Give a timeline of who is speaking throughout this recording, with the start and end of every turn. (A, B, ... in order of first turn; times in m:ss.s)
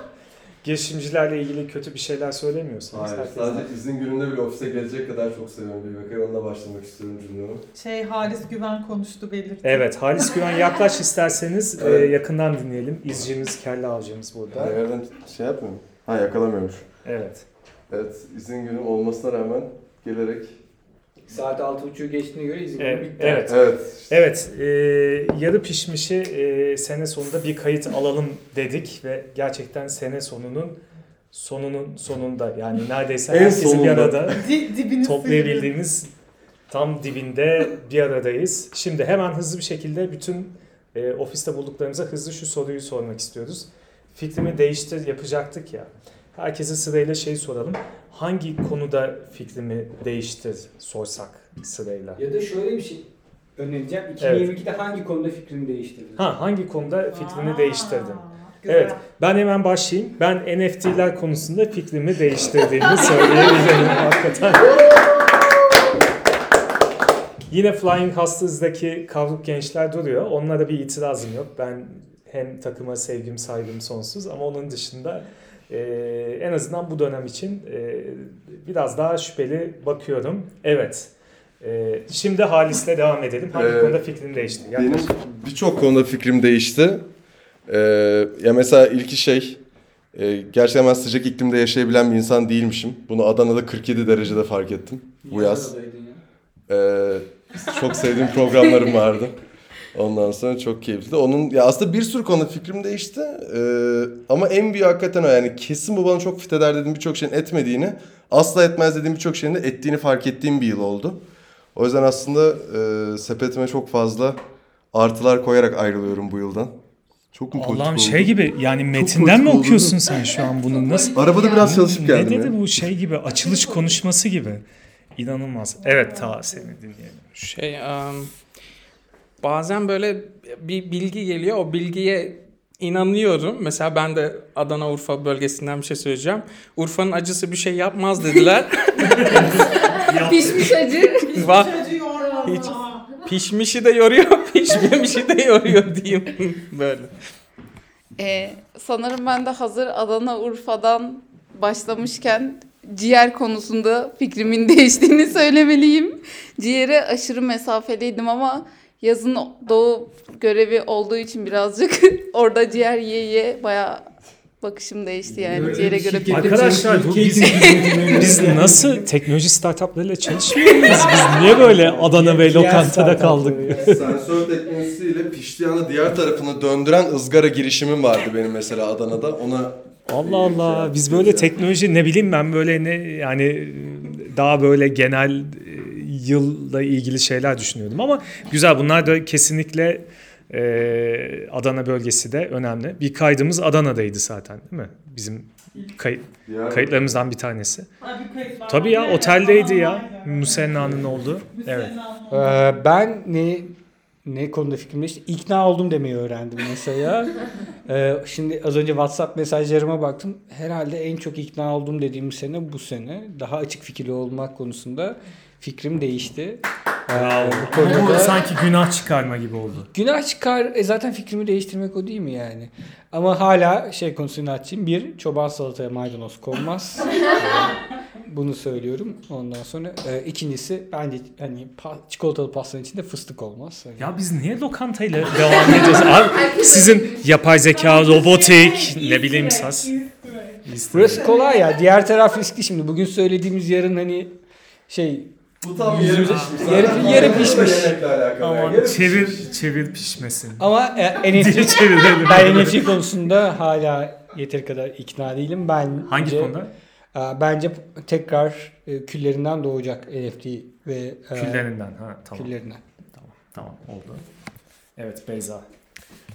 0:00.6-0:03.7 A
0:02.9-0:07.6 B
0:07.8-0:09.8 C
0:09.6-0:14.8 A
0:11.8-0:12.1 B
0:14.5-0:16.8 B
0:17.0-0:17.4 A
0:17.9-0:20.5 B
0:21.3-0:23.5 D
0:22.8-0:30.8 A
0:23.5-0:24.0 B
0:31.3-0:34.4 A
0:33.3-0:34.4 B
0:34.4-0:35.7 C
0:35.0-0:36.1 A
0:36.7-0:52.2 A
0:52.2-0:56.2 D
0:54.2-0:54.5 A
0:56.2-1:04.8 A
0:57.1-0:59.0 C
1:07.5-1:25.1 A
1:23.5-1:24.0 B
1:24.7-1:27.0 B
1:27.7-1:29.6 B
1:30.1-1:35.7 B
1:35.2-1:36.2 D
1:36.7-1:39.4 B
1:39.9-1:51.2 B
1:51.7-1:54.4 B
1:54.9-1:56.7 B
1:57.3-1:58.3 B
1:57.5-2:04.6 A
1:58.9-2:00.0 B
2:01.1-2:02.6 B
2:05.2-2:07.4 A
2:07.4-2:08.3 E
2:09.4-2:19.2 E
2:19.0-2:20.8 A
2:20.1-2:21.4 F
2:20.6-2:21.7 E
2:21.6-2:23.1 C
2:23.2-2:27.1 E
2:28.2-2:44.0 F
2:44.6-2:46.6 F
2:45.2-2:46.0 B
2:45.5-2:49.0 D
2:46.3-2:54.0 A
2:47.3-2:48.1 F
2:50.6-2:54.0 D
2:53.7-3:01.5 B
3:00.1-3:17.9 A
3:16.4-3:17.2 B
3:18.0-3:22.6 C
3:18.7-3:21.9 A
3:22.3-3:38.4 D
3:37.1-3:39.9 A
3:39.9-3:54.1 D
3:54.0-4:00.0 A
3:57.7-4:00.6 C
4:00.6-4:01.3 A
4:00.9-4:04.3 D
4:04.9-4:05.3 D
4:05.6-4:09.4 B
4:05.9-4:07.9 D
4:05.9-4:07.6 A
4:08.4-4:10.7 A
4:10.6-4:16.6 D
4:11.3-4:13.0 A
4:16.1-4:16.7 A
4:17.1-4:21.7 D
4:21.4-4:22.5 A
4:22.3-4:22.8 D
4:23.1-4:24.2 A
4:25.0-4:25.6 A